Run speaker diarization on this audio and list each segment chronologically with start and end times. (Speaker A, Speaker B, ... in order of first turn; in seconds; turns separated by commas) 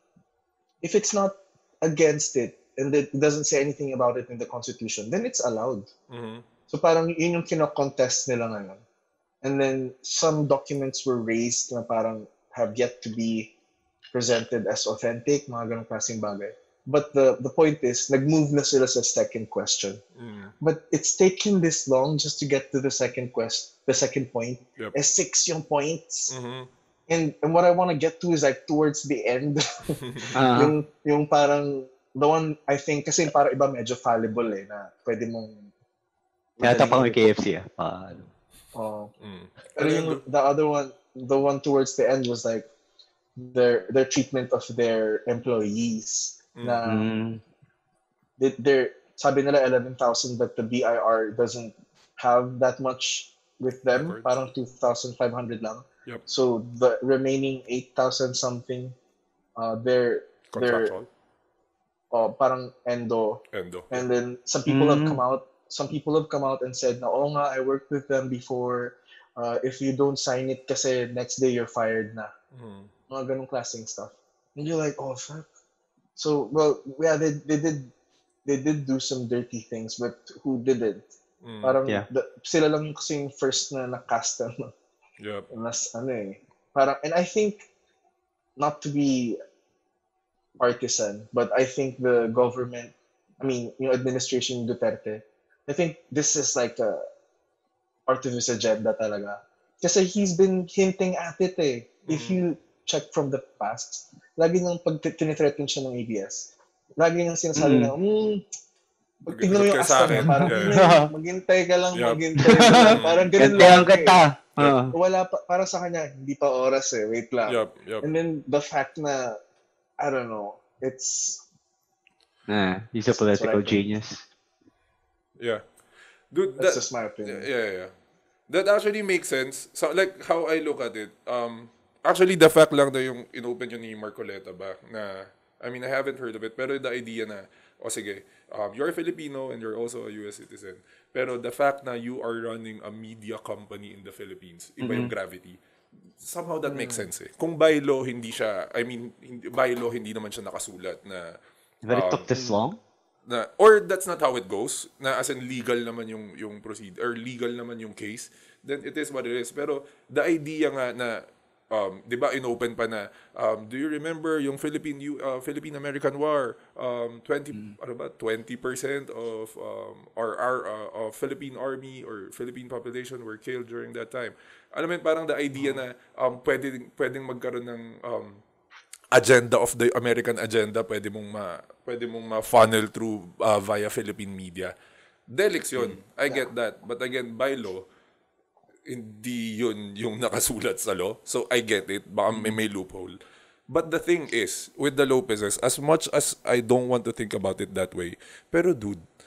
Speaker A: 0.8-5.9, Speaker B: 6.1-6.5, Speaker A: 6.7-8.8, Speaker A: 9.4-13.5, Speaker A: 14.1-20.0, Speaker B: 20.2-20.5, Speaker A: 20.6-26.3, Speaker B: 26.3-26.7, Speaker A: 27.1-35.7, Speaker B: 30.0-30.4, Speaker C: 30.4-30.7, Speaker A: 36.6-37.3, Speaker C: 36.6-38.3, Speaker A: 38.7-39.1, Speaker B: 39.2-40.2, Speaker A: 39.8-42.7, Speaker A: 43.4-47.1, Speaker B: 46.5-46.8, Speaker C: 46.9-47.4, Speaker A: 48.4-59.0, Speaker B: 53.9-54.3, Speaker A: 59.6-60.9, Speaker B: 60.5-61.1, Speaker A: 62.1-72.3, Speaker B: 63.5-64.0, Speaker C: 64.7-65.2, Speaker B: 72.5-72.9, Speaker A: 73.1-75.5, Speaker A: 76.2-77.9, Speaker A: 78.5-81.0, Speaker B: 81.4-81.8, Speaker A: 81.6-84.7, Speaker B: 85.2-85.5, Speaker A: 85.5-87.7, Speaker A: 88.6-89.4, Speaker A: 90.6-97.0, Speaker A: 98.1-108.4, Speaker B: 102.1-102.4, Speaker C: 107.5-107.9, Speaker A: 109.2-114.2, Speaker B: 109.3-110.8, Speaker C: 110.1-111.1, Speaker B: 111.9-112.2, Speaker C: 112.5-114.9, Speaker B: 112.8-113.7, Speaker A: 114.9-119.4, Speaker B: 117.5-118.1, Speaker A: 120.0-121.4, Speaker C: 122.5-124.2, Speaker A: 123.1-123.8, Speaker B: 126.3-127.9, Speaker A: 126.6-127.5, Speaker B: 128.5-145.6, Speaker C: 144.8-145.1, Speaker B: 146.2-151.2, Speaker A: 146.7-147.1, Speaker C: 151.8-152.8, Speaker B: 151.9-152.3, Speaker A: 152.3-152.7, Speaker B: 153.3-161.2, Speaker B: 161.7-178.4, Speaker B: 179.1-184.7, Speaker B: 185.3-187.9, Speaker C: 185.8-186.0, Speaker A: 186.3-186.5, Speaker B: 188.9-193.2, Speaker C: 192.3-192.6, Speaker B: 193.7-199.1